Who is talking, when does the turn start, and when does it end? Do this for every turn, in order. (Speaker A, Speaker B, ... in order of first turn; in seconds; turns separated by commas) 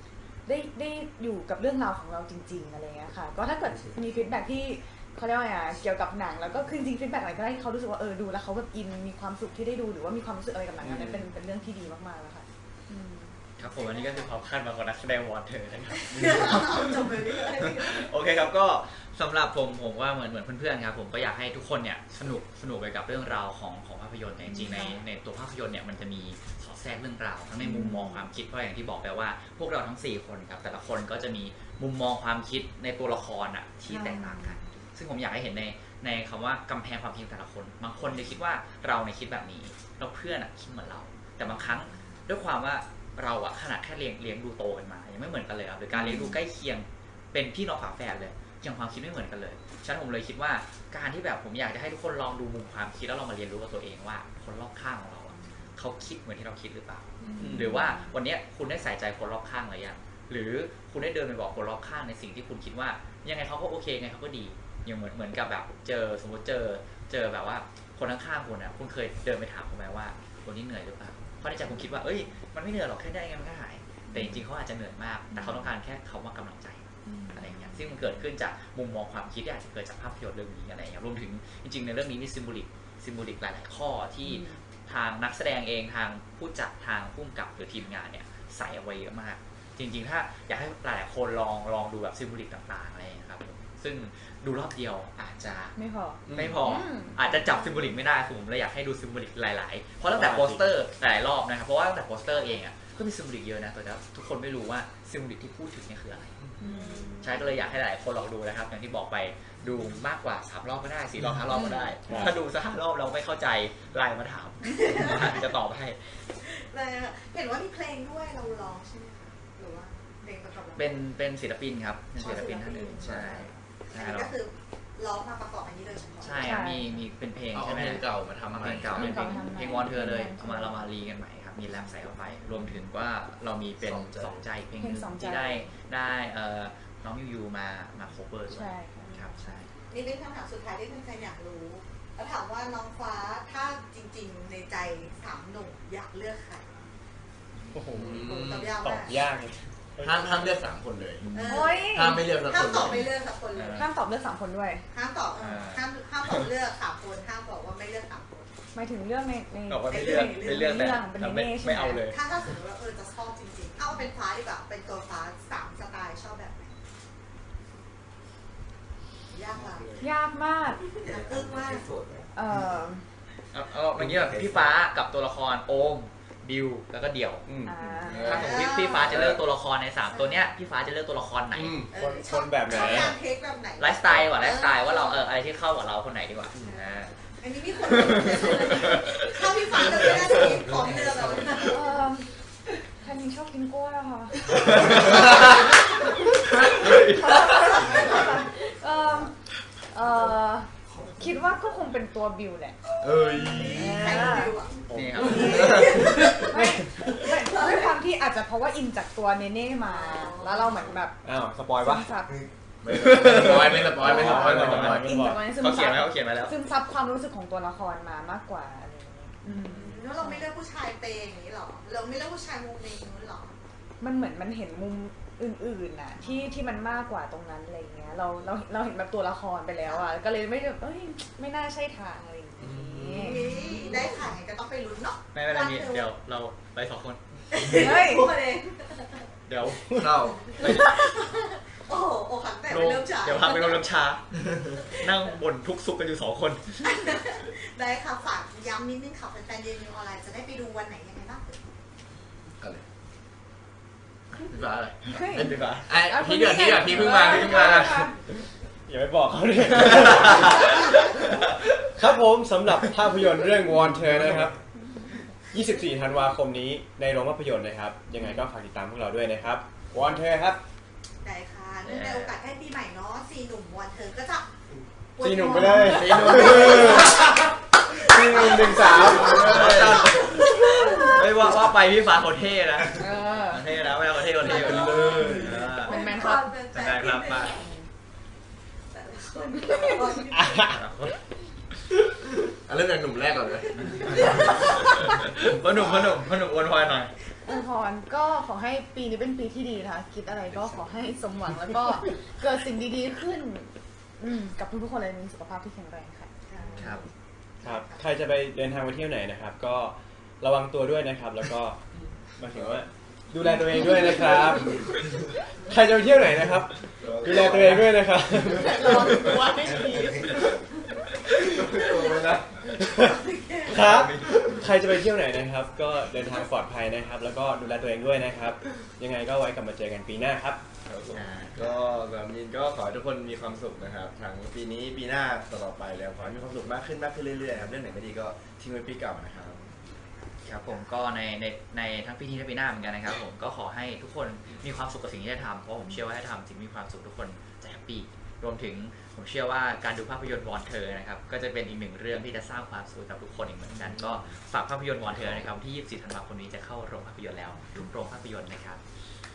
Speaker A: 0.5-13.3, Speaker B: 10.8-11.2, Speaker B: 13.6-95.8, Speaker C: 13.7-14.3, Speaker C: 16.0-18.1, Speaker A: 24.4-25.0, Speaker A: 27.6-28.2, Speaker C: 33.9-34.7, Speaker A: 33.9-34.3, Speaker C: 41.4-42.2, Speaker A: 46.0-46.4, Speaker C: 55.3-55.7, Speaker A: 57.2-58.1, Speaker D: 57.4-57.8, Speaker A: 71.7-72.0, Speaker A: 74.1-74.5, Speaker A: 75.3-75.7, Speaker A: 77.0-78.2, Speaker A: 84.2-84.6, Speaker A: 95.8-97.8, Speaker E: 96.3-96.6, Speaker B: 96.3-106.4, Speaker D: 100.1-100.7, Speaker A: 106.6-107.3, Speaker C: 106.6-107.7, Speaker B: 107.2-116.0, Speaker A: 111.5-112.3, Speaker D: 112.1-112.3, Speaker C: 114.6-115.6, Speaker C: 116.4-121.1, Speaker B: 120.8-124.3, Speaker C: 122.2-126.5, Speaker E: 123.0-123.3, Speaker B: 126.2-139.7, Speaker A: 126.4-127.0, Speaker E: 127.5-129.4, Speaker A: 128.8-130.8, Speaker A: 132.5-132.8, Speaker E: 133.8-134.4, Speaker A: 134.8-135.7, Speaker A: 138.5-139.2, Speaker C: 139.0-146.7, Speaker D: 147.7-150.2, Speaker E: 147.9-148.8, Speaker C: 148.0-149.2, Speaker E: 150.0-153.0, Speaker C: 151.3-153.8, Speaker A: 151.4-152.3, Speaker B: 153.5-153.9, Speaker A: 153.7-154.8, Speaker C: 154.9-158.5, Speaker B: 155.4-156.3, Speaker A: 158.7-162.1, Speaker B: 159.7-162.2, Speaker C: 159.9-160.9, Speaker C: 162.0-166.8, Speaker C: 169.3-170.0, Speaker A: 170.0-170.8, Speaker C: 170.9-171.9, Speaker A: 172.3-173.1, Speaker B: 173.5-177.4, Speaker D: 177.5-178.2, Speaker A: 177.6-178.5, Speaker E: 178.1-179.4, Speaker B: 178.2-181.8, Speaker C: 178.3-179.2, Speaker C: 180.0-180.5, Speaker E: 181.5-181.9, Speaker C: 181.9-185.3, Speaker D: 181.9-183.2, Speaker B: 183.8-187.1, Speaker C: 186.6-191.8, Speaker B: 188.4-188.9, Speaker A: 191.6-192.3, Speaker A: 193.0-195.7, Speaker E: 196.5-197.1, Speaker B: 196.7-197.2, Speaker A: 196.8-199.3, Speaker C: 197.7-198.2, Speaker A: 199.9-202.9, Speaker E: 203.0-204.4, Speaker C: 203.3-204.8, Speaker A: 203.5-204.5, Speaker B: 204.9-205.6, Speaker D: 204.9-206.9, Speaker E: 205.1-205.8, Speaker A: 205.2-211.2, Speaker C: 205.4-206.5, Speaker C: 207.2-207.9, Speaker C: 209.8-210.8, Speaker D: 211.2-212.1, Speaker A: 211.7-212.4, Speaker E: 212.8-215.1, Speaker D: 213.0-215.5, Speaker A: 213.9-220.5, Speaker B: 214.1-216.5, Speaker C: 219.5-223.6, Speaker A: 224.0-233.9, Speaker C: 226.2-226.6, Speaker E: 232.6-233.7, Speaker C: 233.1-236.1, Speaker B: 235.3-237.2, Speaker C: 237.5-239.3, Speaker A: 237.7-238.3, Speaker B: 239.5-240.9, Speaker E: 239.9-240.4, Speaker C: 240.2-243.9, Speaker B: 242.7-244.3, Speaker C: 244.7-245.3, Speaker B: 244.9-247.0, Speaker C: 246.8-251.6, Speaker E: 254.3-258.1, Speaker A: 255.1-258.2, Speaker D: 258.9-261.4, Speaker D: 261.9-264.5, Speaker D: 265.5-270.6, Speaker C: 271.2-274.5, Speaker B: 271.8-272.4, Speaker C: 275.1-277.4, Speaker D: 275.2-277.3, Speaker A: 275.4-276.4, Speaker E: 275.8-277.3, Speaker D: 277.9-280.0, Speaker C: 277.9-281.3, Speaker E: 279.2-280.0, Speaker B: 279.3-287.5, Speaker A: 282.9-283.7, Speaker C: 283.8-287.7, Speaker E: 284.7-285.6, Speaker A: 285.2-286.5, Speaker A: 287.6-287.9, Speaker C: 288.9-290.8, Speaker D: 290.3-290.8, Speaker B: 290.6-291.2, Speaker E: 292.5-294.7, Speaker C: 293.7-295.3, Speaker B: 293.8-297.1, Speaker A: 297.5-306.3, Speaker C: 306.5-306.9, Speaker B: 306.8-307.0, Speaker C: 307.6-308.0, Speaker D: 307.6-311.8, Speaker D: 312.4-315.0, Speaker D: 315.6-319.0, Speaker E: 317.0-319.4, Speaker A: 318.5-320.4, Speaker E: 321.3-322.6, Speaker C: 321.7-323.9, Speaker D: 322.8-323.1, Speaker D: 323.6-330.6, Speaker E: 323.8-324.6, Speaker E: 330.8-339.6, Speaker B: 331.1-331.8, Speaker B: 340.4-358.8, Speaker E: 353.7-354.3, Speaker E: 355.1-355.4